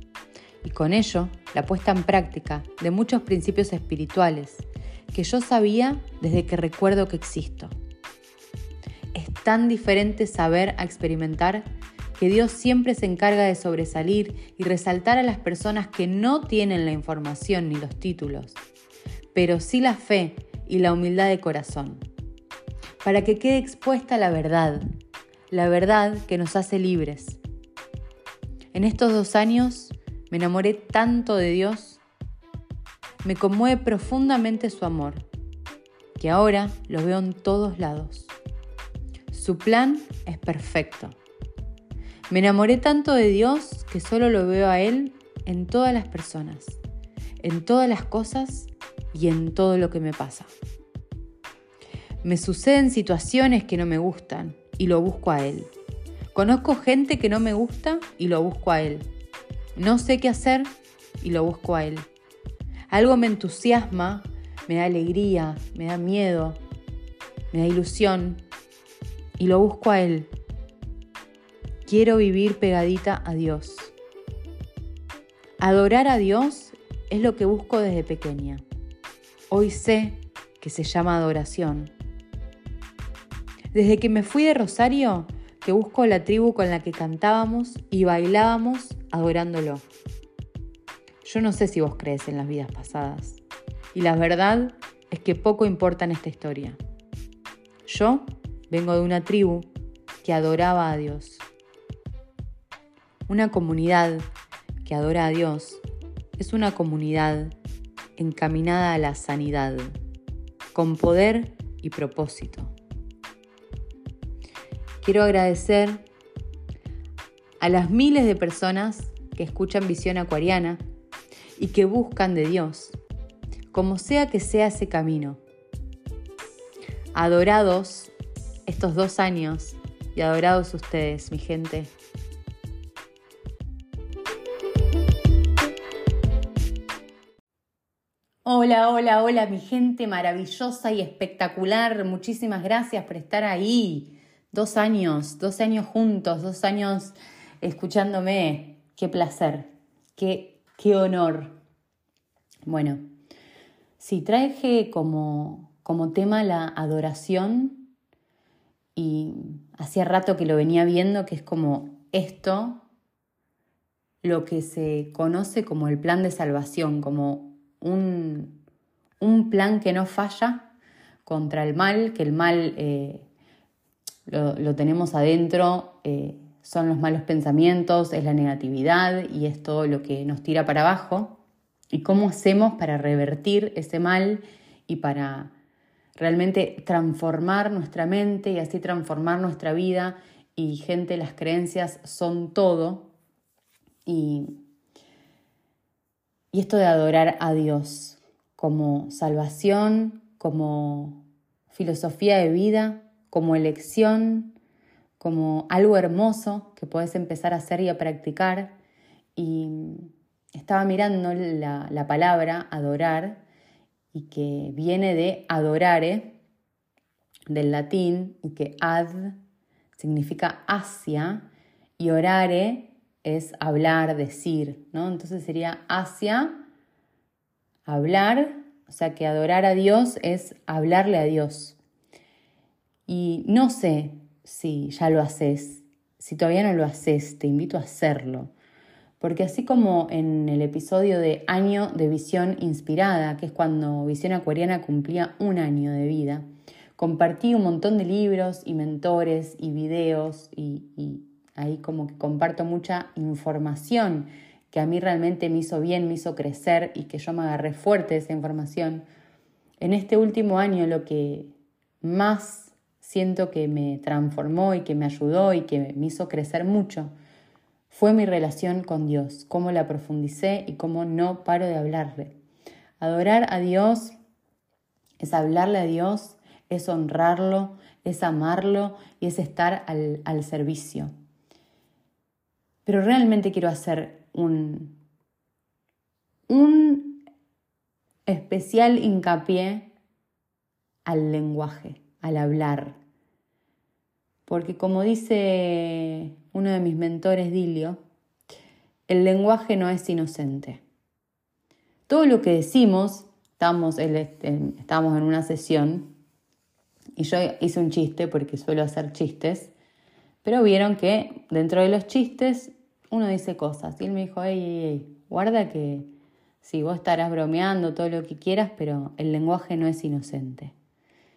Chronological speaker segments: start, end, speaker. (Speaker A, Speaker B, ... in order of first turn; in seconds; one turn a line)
Speaker A: 0.6-7.7
Speaker A: 9.1-11.6
Speaker A: 12.2-18.6
Speaker A: 19.3-22.0
Speaker A: 23.0-24.8
Speaker A: 25.5-27.4
Speaker A: 28.7-32.0
Speaker A: 33.2-35.2
Speaker A: 36.2-38.3
Speaker A: 39.3-41.2
Speaker A: 42.3-46.8
Speaker A: 47.4-50.5
Speaker A: 52.2-55.7
Speaker A: 56.3-59.0
Speaker A: 59.8-62.1
Speaker A: 62.9-66.6
Speaker A: 67.5-68.4
Speaker A: 69.4-70.3
Speaker A: 71.8-73.9
Speaker A: 75.6-78.6
Speaker A: 79.5-81.9
Speaker A: 83.7-89.8
Speaker A: 91.2-93.4
Speaker A: 93.9-96.8
Speaker A: 97.8-99.7
Speaker A: 100.2-101.4
Speaker A: 103.3-104.2
Speaker A: 104.8-105.8
Speaker A: 106.4-107.5
Speaker A: 108.2-110.0
Speaker A: 110.7-112.7
Speaker A: 115.0-116.0
Speaker A: 117.6-120.8
Speaker A: 121.6-123.0
Speaker A: 123.7-125.4
Speaker A: 127.1-128.1
Speaker A: 128.7-131.9
Speaker A: 138.4-151.6
Speaker A: 152.7-153.0
Speaker A: 154.0-157.9
Speaker A: 158.9-162.8
Speaker A: 164.2-168.6
Speaker A: 169.2-170.7
Speaker A: 171.2-173.2
Speaker A: 174.3-181.4
Speaker A: 181.9-185.5
Speaker A: 186.2-193.1
Speaker A: 194.1-194.6
Speaker A: 196.5-204.6
Speaker A: 205.2-208.8
Speaker A: 209.3-213.4
Speaker A: 214.1-216.4
Speaker A: 217.5-219.4
Speaker A: 219.9-221.5
Speaker A: 222.0-226.6
Speaker A: 227.8-231.8
Speaker A: 233.1-238.5
Speaker A: 239.2-246.4
Speaker A: 247.0-259.0
Speaker A: 259.8-267.1
Speaker A: 267.9-272.4
Speaker A: 273.0-274.1
Speaker A: 275.2-281.1
Speaker A: 282.9-285.0
Speaker A: 286.5-287.2
Speaker A: 288.3-289.9
Speaker A: 291.1-293.0
Speaker A: 294.5-298.0
Speaker A: 299.1-300.8
Speaker A: 302.1-306.1
Speaker A: 307.2-309.7
Speaker A: 310.4-320.7